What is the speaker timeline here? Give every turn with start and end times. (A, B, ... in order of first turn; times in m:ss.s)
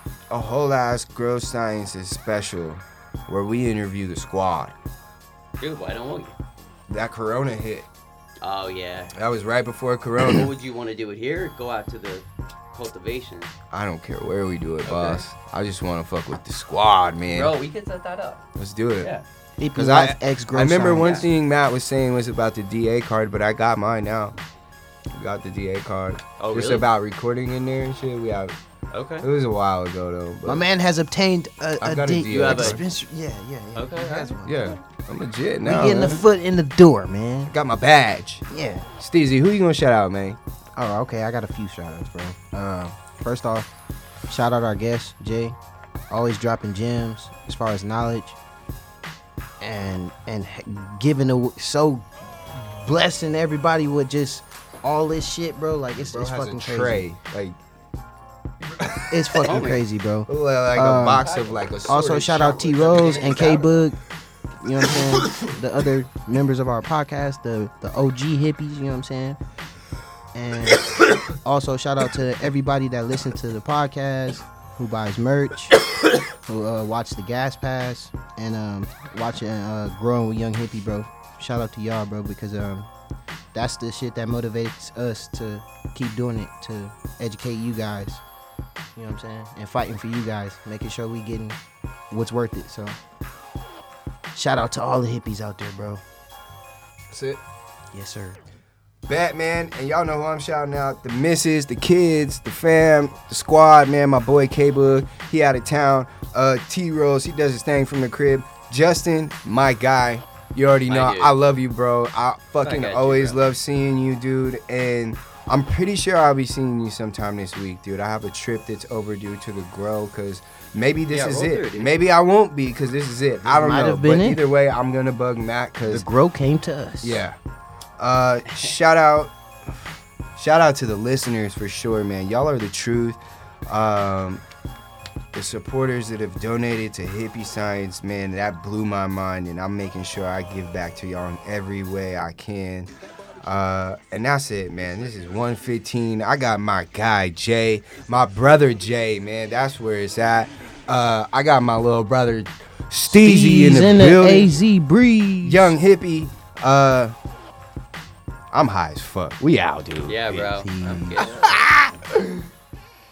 0:00.3-0:04.7 A
0:05.6-0:06.4 B
0:06.9-0:07.9 A
0:08.4-0:09.1 B
0:09.1-0:10.5 A
0:10.2-0:13.5 B
0:13.7-0:17.6 A
0:14.8-0:15.2 B
0:17.3-0:18.4 B
0:18.6-0:19.1 A
0:19.0-0:19.2 B
0:19.6-0:21.1 C
0:19.7-0:24.4 A
0:21.0-0:21.3 B
0:25.1-0:28.6 A
0:26.4-0:26.8 B
0:28.9-0:29.3 B
0:29.2-0:30.6 A
0:30.4-0:34.7 C
0:31.8-0:32.8 A
0:32.3-0:32.8 B
0:33.7-0:34.4 B
0:34.4-0:36.2 A
0:35.6-0:37.5 C
0:37.5-0:38.4 A
0:38.5-0:38.9 C
0:39.0-0:40.4 A
0:40.8-0:43.7 C
0:44.3-0:45.6 C
0:46.1-0:48.4 C
0:49.6-0:57.1 C
0:56.0-0:57.6 A
0:58.7-0:59.6 A
0:59.1-1:01.2 C
0:59.4-0:59.8 B
1:00.3-1:03.6 A
1:01.2-1:01.6 B
1:01.9-1:04.0 C
1:02.8-1:03.8 B
1:04.6-1:09.4 C
1:05.0-1:05.5 A
1:10.3-1:15.8 C
1:16.4-1:22.9 C
1:23.5-1:28.2 C
1:29.0-1:31.6 C
1:32.1-1:33.0 C
1:34.3-1:36.0 C
1:37.1-1:37.4 A
1:37.9-1:38.4 C
1:39.1-2:06.1 A
1:50.9-1:51.3 B
1:52.6-1:53.4 B
2:01.1-2:01.9 B
2:03.4-2:04.4 C
2:05.8-2:07.2 C
2:07.0-2:07.4 A
2:08.0-2:09.8 A
2:10.3-2:14.4 A
2:15.3-2:22.9 A
2:23.4-2:34.5 A
2:33.1-2:35.7 C
2:35.4-2:37.1 A
2:38.5-2:42.4 A
2:40.0-2:41.7 B